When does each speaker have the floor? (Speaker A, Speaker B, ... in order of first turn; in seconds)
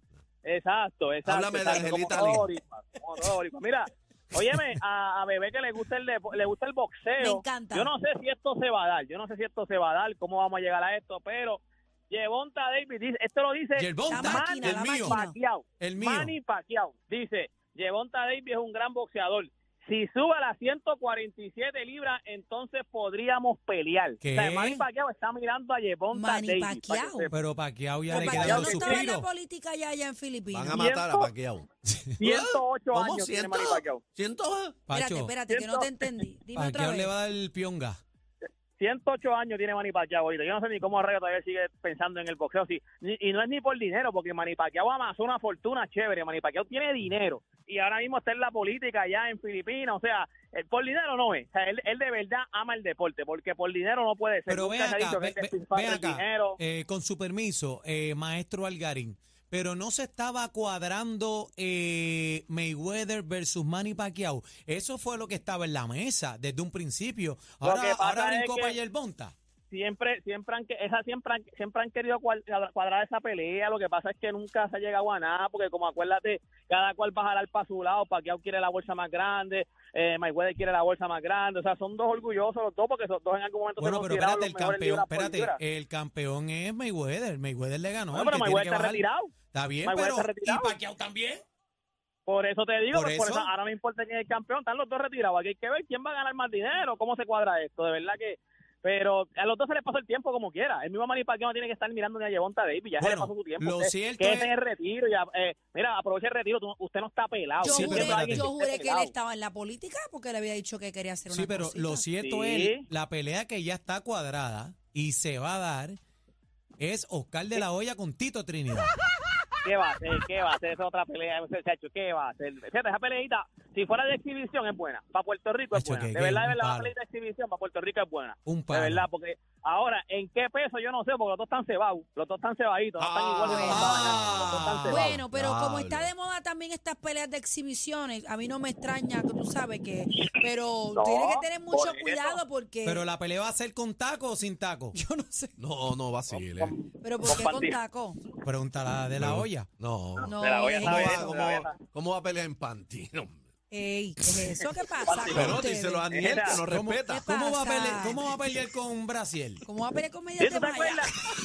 Speaker A: 0.4-27.4, 28.1-29.1, 30.7-31.3, 32.2-34.0, 35.5-35.9, 38.8-56.6, 67.6-68.8, 69.7-85.6, 88.1-89.3, 89.8-90.7, 92.3-109.1, 112.2-112.9, 119.6-135.1, 140.9-142.4, 146.3-147.8, 150.2-151.8, 155.1-155.6, 156.1-156.6, 160.4-161.1
Speaker B: 1.3-2.5, 30.5-31.7, 32.2-34.8, 133.0-134.5, 135.3-136.1, 145.6-146.8, 149.2-153.3, 155.3-157.2
Speaker C: 7.2-7.9, 14.1-15.3, 26.1-27.3, 28.1-30.9, 34.9-37.1, 107.6-112.0, 133.4-134.1, 134.8-143.0, 144.9-145.5, 147.0-148.2, 150.2-151.2, 153.7-156.5, 157.1-158.2, 159.6-161.0
Speaker D: 13.8-15.2, 15.8-16.4, 24.2-24.9, 27.3-29.3, 34.9-35.3, 36.5-38.0, 54.5-69.3, 83.8-91.4, 92.9-93.5, 103.0-104.5, 107.6-108.5, 111.3-116.0, 116.8-118.9, 125.7-126.9, 128.4-129.1, 133.7-135.2, 142.8-145.0, 148.4-149.7, 150.8-151.2, 156.7-159.7